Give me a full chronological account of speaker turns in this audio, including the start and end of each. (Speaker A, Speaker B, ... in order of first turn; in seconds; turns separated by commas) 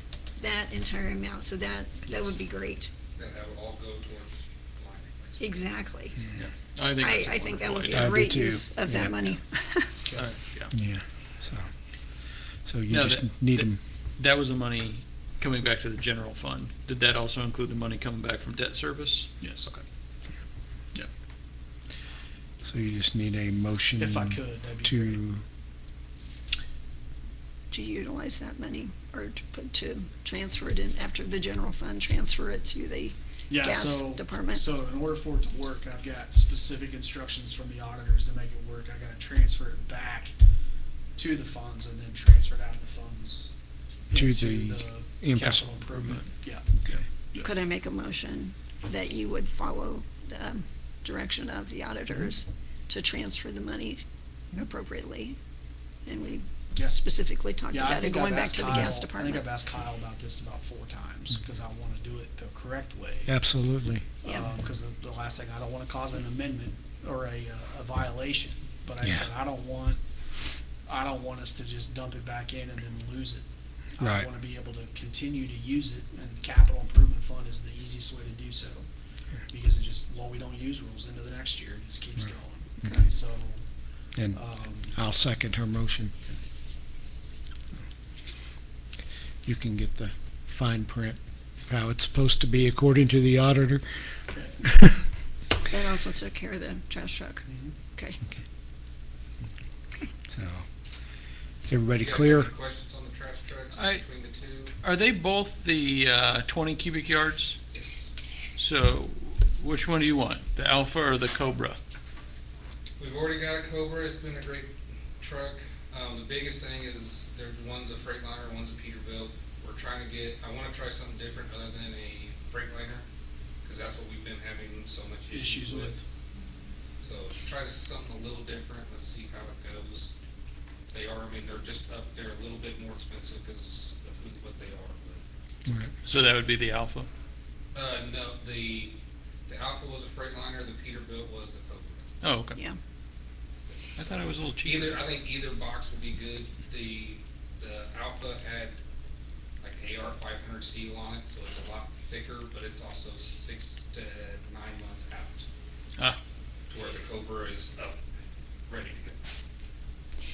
Speaker A: 0.4-2.9, Speaker B: 3.2-5.7, Speaker A: 5.4-6.2, Speaker C: 6.3-8.2, Speaker A: 7.0-9.9, Speaker D: 7.9-9.4, Speaker E: 10.0-10.3, Speaker C: 10.1-10.7, Speaker D: 10.7-13.8, Speaker C: 12.9-19.9, Speaker E: 19.4-19.7, Speaker D: 22.6-25.4, Speaker E: 24.0-25.2, Speaker A: 27.7-34.6, Speaker E: 33.5-40.4, Speaker E: 41.2-43.5, Speaker E: 44.1-47.5, Speaker D: 44.1-46.2, Speaker A: 47.4-54.0, Speaker A: 54.5-55.4, Speaker A: 56.1-59.5, Speaker E: 56.7-57.0, Speaker E: 57.7-63.3, Speaker D: 63.3-64.1, Speaker A: 64.2-64.5, Speaker E: 64.2-70.0, Speaker E: 70.9-73.5, Speaker E: 74.0-78.9, Speaker D: 74.0-74.3, Speaker E: 79.5-83.6, Speaker D: 84.2-86.2, Speaker E: 84.3-85.0, Speaker D: 89.4-94.7, Speaker E: 94.3-94.6, Speaker A: 95.7-98.2, Speaker E: 97.5-97.7, Speaker D: 100.3-100.7, Speaker D: 101.6-102.5, Speaker B: 102.0-104.8, Speaker C: 103.8-104.0, Speaker C: 104.8-107.6, Speaker B: 107.7-108.1, Speaker C: 108.6-111.8, Speaker B: 113.0-123.0, Speaker B: 123.6-126.0, Speaker E: 125.3-126.0, Speaker B: 127.0-130.1, Speaker B: 130.9-135.2, Speaker D: 135.7-135.9, Speaker C: 136.1-137.1, Speaker B: 137.7-142.1, Speaker C: 142.2-142.6, Speaker B: 143.7-148.8, Speaker C: 144.0-145.0, Speaker B: 149.6-155.5, Speaker B: 156.7-158.0, Speaker B: 158.7-159.2